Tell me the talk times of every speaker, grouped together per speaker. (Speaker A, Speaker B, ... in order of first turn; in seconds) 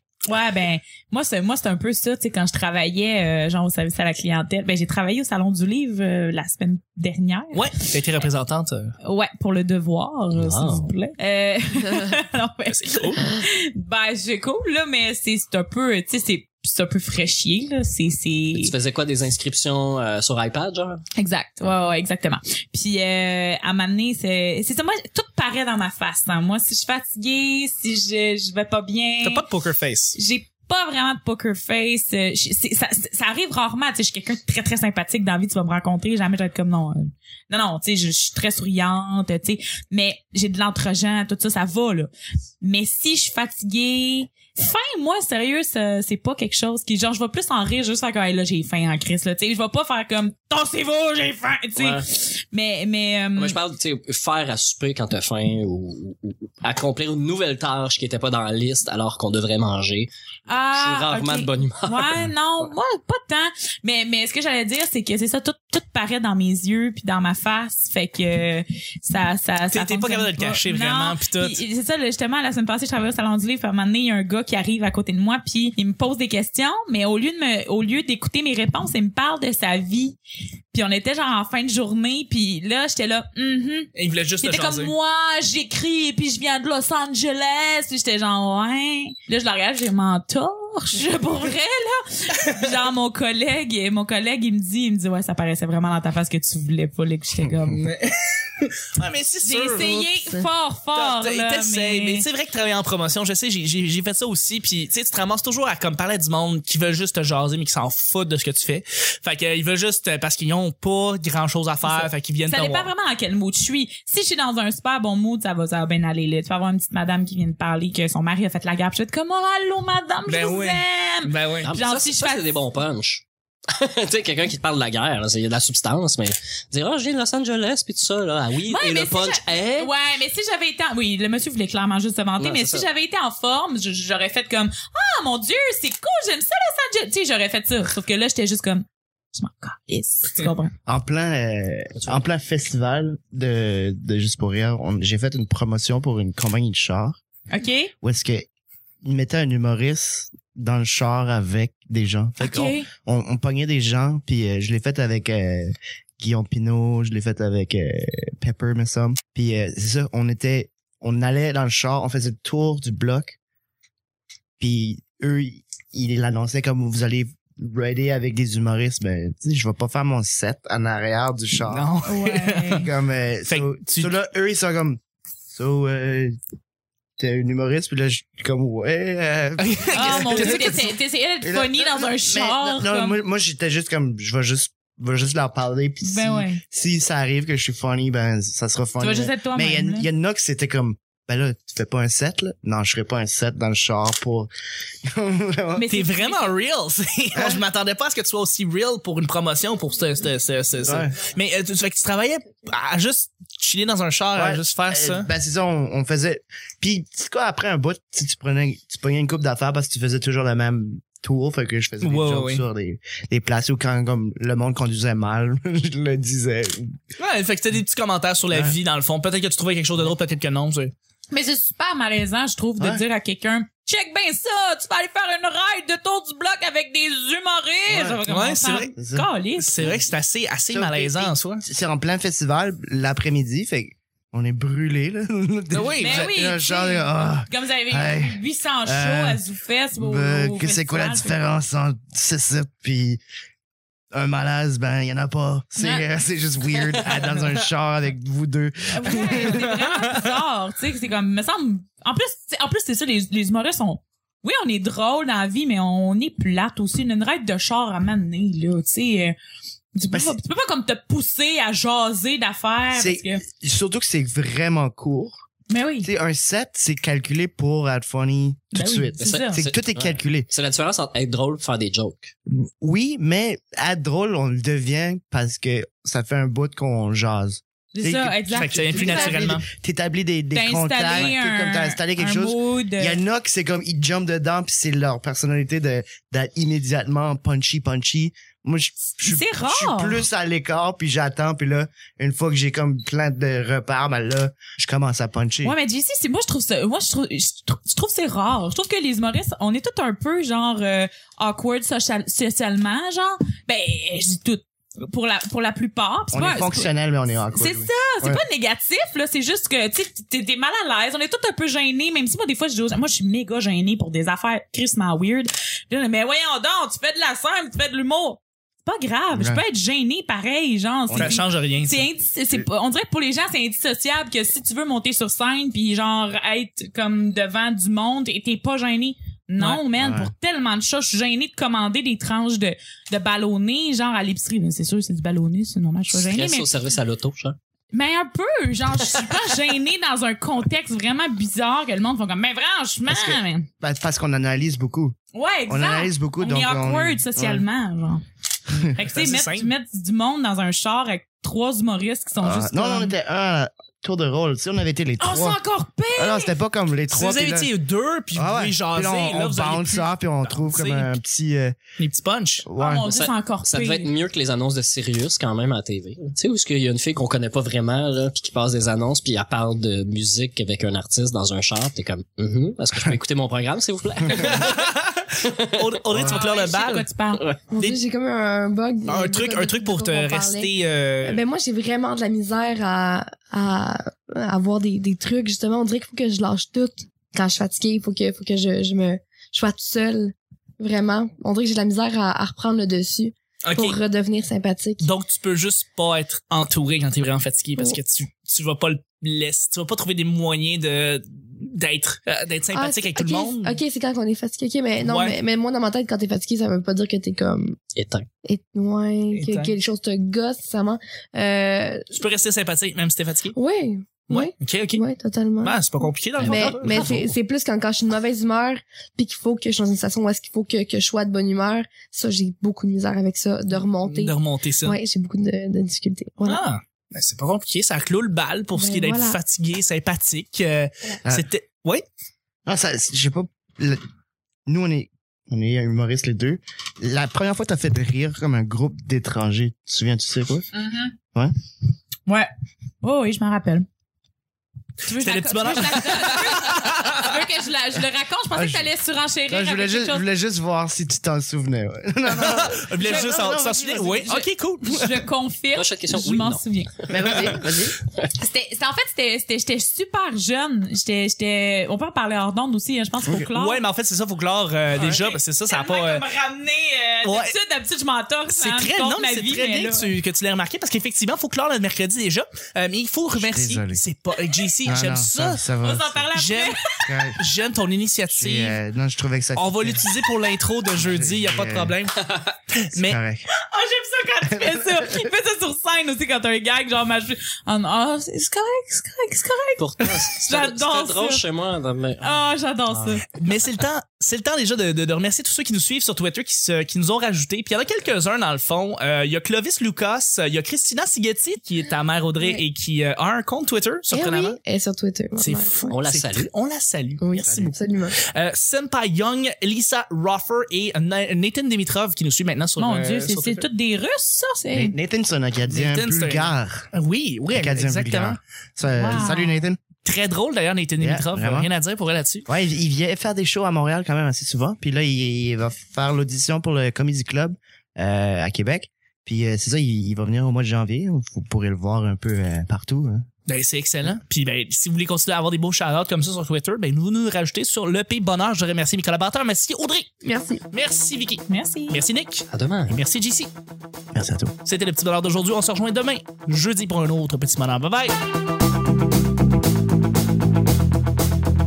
Speaker A: 0.3-8.0, 9.0-18.8, 21.2-29.4, 30.1-53.6, 60.5-80.2, 80.7-83.9, 84.4-97.8, 99.4-102.3, 111.9-122.5, 128.7-140.7, 147.5-147.9, 152.4-152.9, 172.1-172.9, 179.9-183.2, 186.0-186.6, 189.0-190.1, 195.8-196.5, 221.3-229.9, 236.0-241.3, 245.8-246.1, 248.9-259.4, 259.9-263.4, 265.7-266.1, 268.7-269.6, 277.9-279.5, 280.5-283.2, 289.2-290.2, 295.6-306.9, 307.5-336.7, 337.9-343.7, 345.3-348.2, 348.9-353.1, 355.2-356.6, 362.8-364.1, 376.1-377.5, 440.7-441.1, 443.0-443.9, 445.0-450.2, 453.0-453.5, 454.3-457.0, 458.4-463.8, 465.7-470.2, 475.8-477.1, 483.7-491.4, 492.2-493.3, 512.8-514.7, 518.9-519.6, 541.5-542.0
Speaker B: 7.5-8.9, 12.7-13.2, 29.2-30.2, 69.7-71.6, 84.0-84.9, 97.7-100.4, 100.9-112.9, 120.3-121.7, 171.7-172.9, 173.5-174.1, 179.6-180.9, 195.9-205.3, 212.0-212.7, 217.2-220.9, 228.3-228.9, 229.6-231.6, 235.7-236.3, 249.4-250.2, 278.5-279.7, 321.1-322.1, 329.6-329.8, 349.0-349.7, 357.1-361.1, 362.0-362.7, 374.3-377.1, 379.1-381.4, 393.6-394.0, 395.0-403.8, 405.0-405.4, 409.3-409.8, 412.1-413.6, 414.3-415.1, 415.6-417.3, 424.0-425.0, 426.4-432.1, 445.1-447.4, 452.3-455.2, 463.3-466.2, 467.2-467.6, 468.5-475.7, 476.3-476.8, 477.4-478.8, 479.6-483.2, 493.3-504.6, 505.4-513.6, 515.7-518.4, 520.0-522.5, 533.5-543.5, 544.6-548.2
Speaker C: 10.3-10.9, 18.5-21.0, 51.8-52.1, 53.4-60.1, 60.7-62.3, 121.6-129.9, 132.4-132.9, 269.2-272.3, 336.1-337.6, 363.1-374.9, 375.4-375.9, 377.3-377.6, 407.9-408.3, 416.4-417.2, 455.7-458.3, 489.8-493.2, 505.9-506.5, 542.5-543.0
Speaker D: 140.9-147.2, 148.0-148.5, 149.0-163.4, 164.6-171.9, 172.8-176.4, 177.2-194.5, 195.0-195.9, 197.3-197.6, 200.8-201.2, 204.3-217.0, 218.5-218.8, 227.9-228.2, 229.0-229.3, 230.7-239.4, 239.9-243.2, 244.1-249.9, 262.9-265.5, 266.0-270.5, 272.5-295.8, 306.3-308.4, 319.3-319.6, 321.1-321.4, 330.0-330.3, 343.1-345.2, 345.7-347.7, 352.4-355.6, 356.2-357.7, 358.4-361.8, 362.6-363.1, 376.1-376.4, 432.7-434.0, 434.7-440.7, 448.5-448.9, 449.5-454.4, 457.1-458.0, 464.9-465.3, 473.4-474.0, 474.9-476.3, 477.0-477.4, 478.3-480.1, 481.0-481.9, 483.0-483.5, 484.4-485.3, 507.4-507.8, 514.7-516.9, 517.5-519.8, 521.0-521.7, 522.5-533.3, 544.1-544.5
Speaker E: 377.7-395.1, 402.7-407.8, 408.4-412.1, 413.6-426.6, 428.8-429.4, 504.1-505.9, 507.2-508.2, 514.6-515.0, 540.2-540.6